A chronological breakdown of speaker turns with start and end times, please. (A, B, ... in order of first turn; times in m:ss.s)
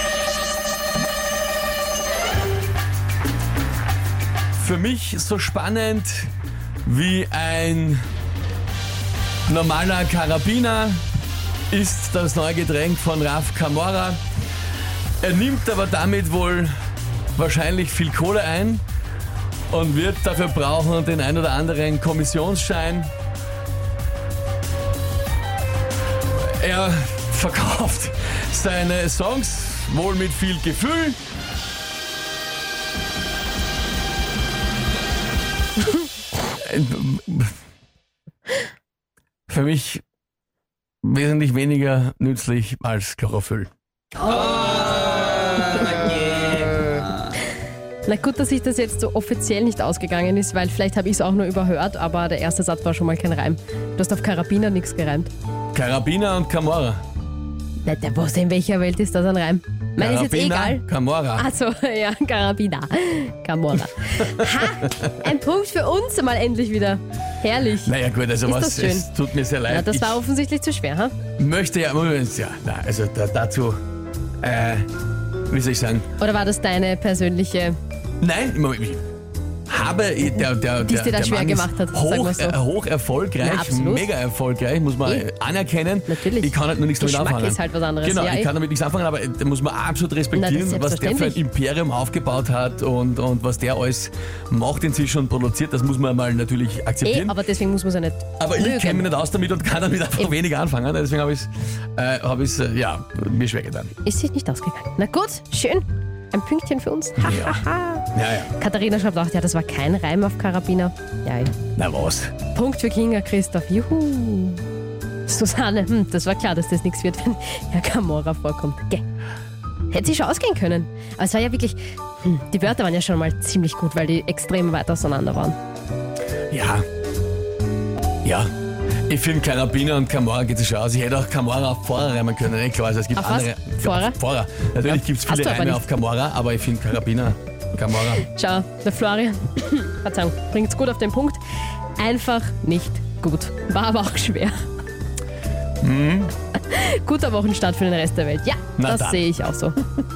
0:04.6-0:06.3 A
0:06.8-0:08.0 A
0:09.5-0:11.0 A
0:11.7-0:14.2 A
0:15.2-0:16.7 A
0:17.4-0:18.8 A
0:19.7-0:23.1 A
0:26.4-0:31.2 A
0:36.5-0:37.6 A
0:39.5-0:40.0 A
0:41.0-0:43.7 A
0:44.3-0:44.8 B
0:45.3-0:46.3 B
0:48.1-0:55.3 B
0:55.7-0:57.0 A
0:57.8-1:00.8 B
1:00.0-1:01.5 A
1:01.4-1:09.1 B
1:04.3-1:05.1 A
1:07.8-1:10.2 A
1:09.6-1:11.2 B
1:11.4-1:13.8 A
1:14.4-1:14.9 A
1:15.5-1:16.1 A
1:16.2-1:17.8 B
1:18.2-1:19.0 A
1:19.7-1:37.4 A
1:20.8-1:22.6 B
1:23.4-1:24.1 B
1:26.1-1:28.5 B
1:30.3-1:31.4 B
1:37.0-1:39.1 B
1:38.4-1:43.9 A
1:44.0-1:51.6 B
1:47.2-1:48.5 A
1:51.8-1:52.3 A
1:52.5-1:54.6 B
1:55.2-1:59.0 B
1:59.9-2:05.6 B
2:06.5-2:06.8 A
2:08.2-2:08.5 A
2:09.1-2:18.2 A
2:13.2-2:14.2 B
2:14.8-2:15.9 B
2:18.2-2:21.4 B
2:22.0-2:24.6 B
2:25.8-2:26.3 A
2:26.6-2:29.8 B
2:28.8-2:29.2 A